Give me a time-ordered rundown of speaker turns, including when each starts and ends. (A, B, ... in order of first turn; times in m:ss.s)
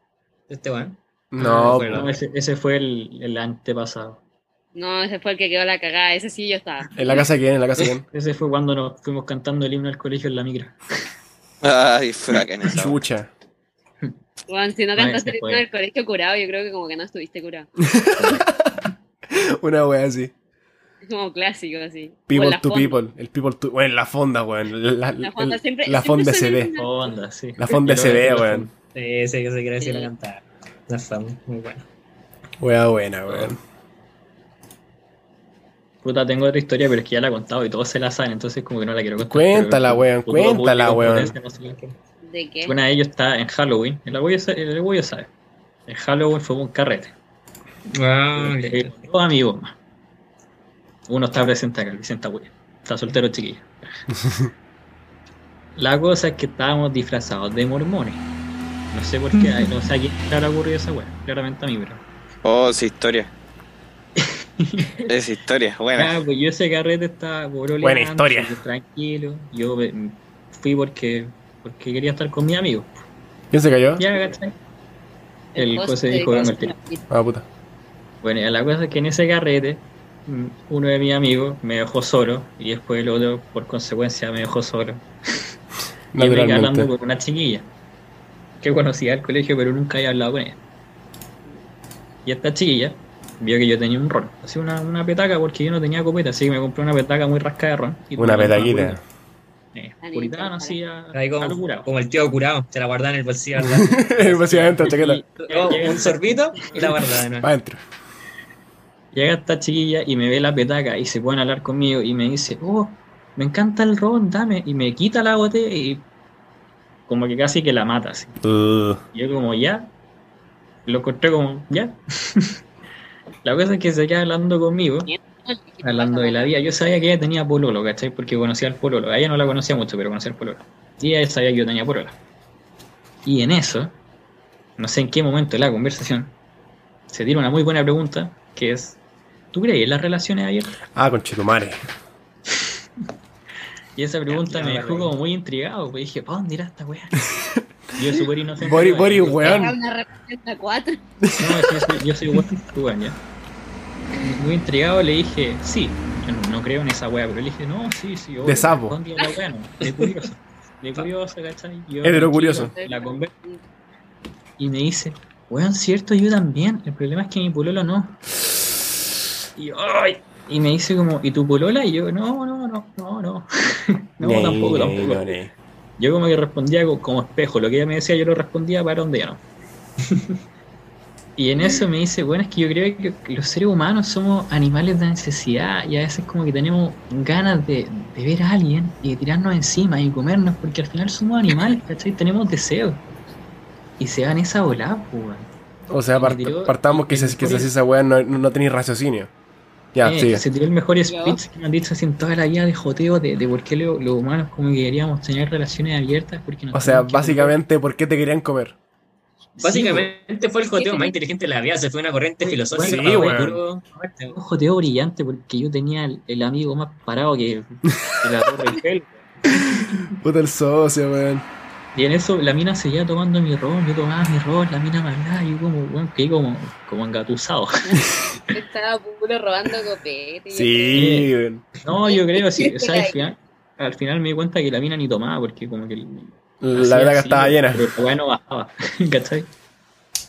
0:00.5-0:02.2 A
0:01.3-0:02.1 B
0:01.4-0:04.2 C
0:04.7-0:07.2 D
0:07.0-0:08.0 B
0:07.8-0:10.8 C
0:11.6-0:13.0 E
0:12.7-0:13.3 B
0:14.5-0:17.7 D
0:15.0-0:15.6 C
0:17.8-0:18.8 B
0:18.2-0:18.5 C
0:19.3-0:20.3 B
0:21.0-0:23.0 D
0:22.3-0:26.7 B
0:25.2-0:27.1 D
0:26.8-0:28.7 C
0:27.6-0:28.7 B
0:28.9-0:31.8 A
0:29.8-0:30.1 D
0:32.6-0:33.6 B
0:36.0-0:41.9 C
0:39.2-0:41.3 B
0:42.2-0:42.8 D
0:42.6-0:45.3 C
0:45.9-0:47.1 C
0:47.9-0:49.0 A
0:48.4-0:49.8 C
0:51.1-0:53.7 C
0:55.8-0:58.2 C
0:58.9-1:02.0 C
1:02.4-1:03.3 E
1:04.2-1:05.1 C
1:05.0-1:06.2 E
1:05.9-1:12.9 C
1:07.8-1:08.6 B
1:13.5-1:14.0 B
1:14.0-1:14.6 C
1:15.5-1:16.7 C
1:15.5-1:17.0 D
1:17.1-1:17.4 B
1:18.2-1:25.0 C
1:26.1-1:26.9 B
1:26.2-1:27.7 C
1:28.6-1:30.6 C
1:32.2-1:39.0 C
1:38.2-1:39.0 B
1:39.7-1:41.9 C
1:40.0-1:40.8 D
1:41.1-1:44.7 A
1:43.6-1:45.2 B
1:44.2-1:47.0 C
1:45.4-1:47.5 A
1:47.4-1:47.8 B
1:49.1-1:56.0 C
1:57.1-1:58.4 C
1:58.4-1:59.0 B
1:59.1-1:59.9 C
2:00.8-2:02.6 C
2:03.4-2:05.1 C
2:05.1-2:06.5 D
2:05.8-2:12.2 C
2:13.2-2:14.0 C
2:14.8-2:16.3 C
2:17.1-2:19.0 C
2:19.5-2:20.8 C
2:20.9-2:21.8 B
2:24.0-2:27.3 C
2:24.3-2:25.1 A
2:27.3-2:27.6 B
2:27.9-2:29.7 C
2:28.6-2:29.8 B
2:29.4-2:31.0 D
2:31.2-2:32.0 B
2:31.4-2:33.2 C
2:34.2-2:43.3 C
2:38.4-2:39.0 B
2:39.8-2:40.1 A
2:42.0-2:42.7 B
2:42.6-2:43.6 D
2:44.6-2:48.2 C
2:49.6-2:55.4 C
2:54.2-2:55.5 B
2:56.0-2:59.4 C
3:01.4-3:13.0 C
3:14.0-3:15.5 C
3:15.9-3:19.3 B
3:16.1-3:17.7 C
3:19.9-3:20.4 B
3:20.0-3:27.6 C
3:21.1-3:21.4 D
3:26.7-3:28.8 B
3:29.6-3:30.1 C
3:29.6-3:34.4 A
3:30.7-3:31.2 D
3:32.4-3:33.6 C
3:32.8-3:33.6 B
3:34.3-3:40.0 C
3:39.6-3:41.4 B
3:41.9-3:48.0 C
3:48.5-3:51.2 D
3:50.5-3:51.6 B
3:50.9-3:51.3 C
3:51.8-3:59.5 C
3:52.0-3:53.3 D
3:56.6-3:57.9 B